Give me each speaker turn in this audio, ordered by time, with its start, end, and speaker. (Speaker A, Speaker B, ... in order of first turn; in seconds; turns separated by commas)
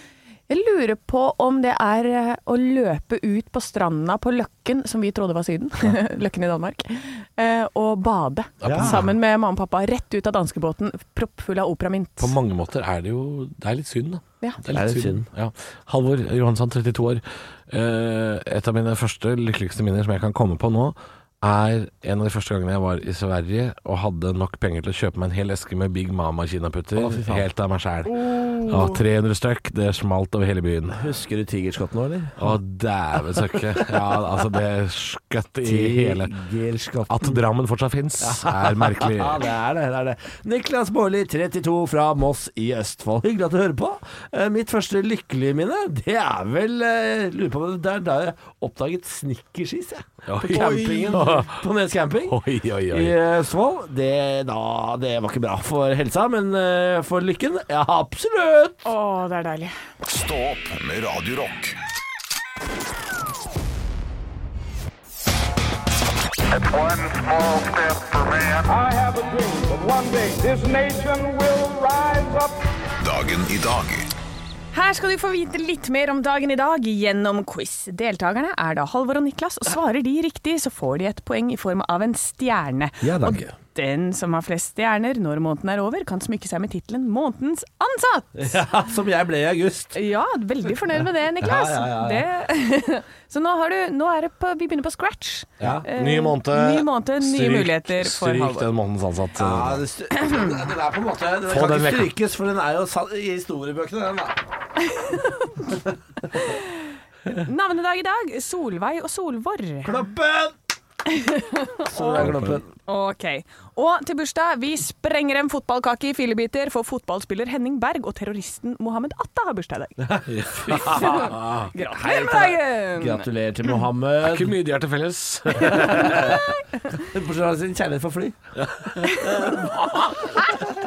Speaker A: 0.5-12.3, Speaker B: 8.6-9.1, Speaker C: 8.6-9.1, Speaker B: 12.2-31.0, Speaker C: 14.7-15.3, Speaker C: 26.9-27.4, Speaker A: 28.1-28.9, Speaker C: 30.9-32.5, Speaker B: 32.4-36.3, Speaker C: 35.6-37.4, Speaker B: 37.1-39.4, Speaker C: 38.2-52.4, Speaker B: 50.3-51.6, Speaker A: 50.5-51.4, Speaker B: 52.3-53.2, Speaker C: 52.9-58.9, Speaker A: 58.9-59.7, Speaker D: 60.0-61.8, Speaker E: 66.5-72.6, Speaker D: 73.0-74.1, Speaker A: 74.7-88.6, Speaker C: 83.0-83.5, Speaker C: 88.3-90.0, Speaker A: 89.9-98.7, Speaker C: 91.4-92.2, Speaker C: 95.6-95.8, Speaker B: 95.6-99.8, Speaker C: 99.4-104.4, Speaker B: 101.5-102.1, Speaker A: 104.9-105.5, Speaker C: 105.7-106.2, Speaker A: 107.3-109.9, Speaker C: 109.8-110.5, Speaker A: 111.1-112.3, Speaker C: 111.9-112.7, Speaker B: 112.2-112.6, Speaker A: 112.9-120.2, Speaker C: 120.0-124.6, Speaker B: 120.3-121.7, Speaker A: 120.7-123.3, Speaker B: 124.2-126.4, Speaker C: 125.6-128.4, Speaker B: 128.6-130.2, Speaker A: 129.0-129.4, Speaker C: 129.3-129.7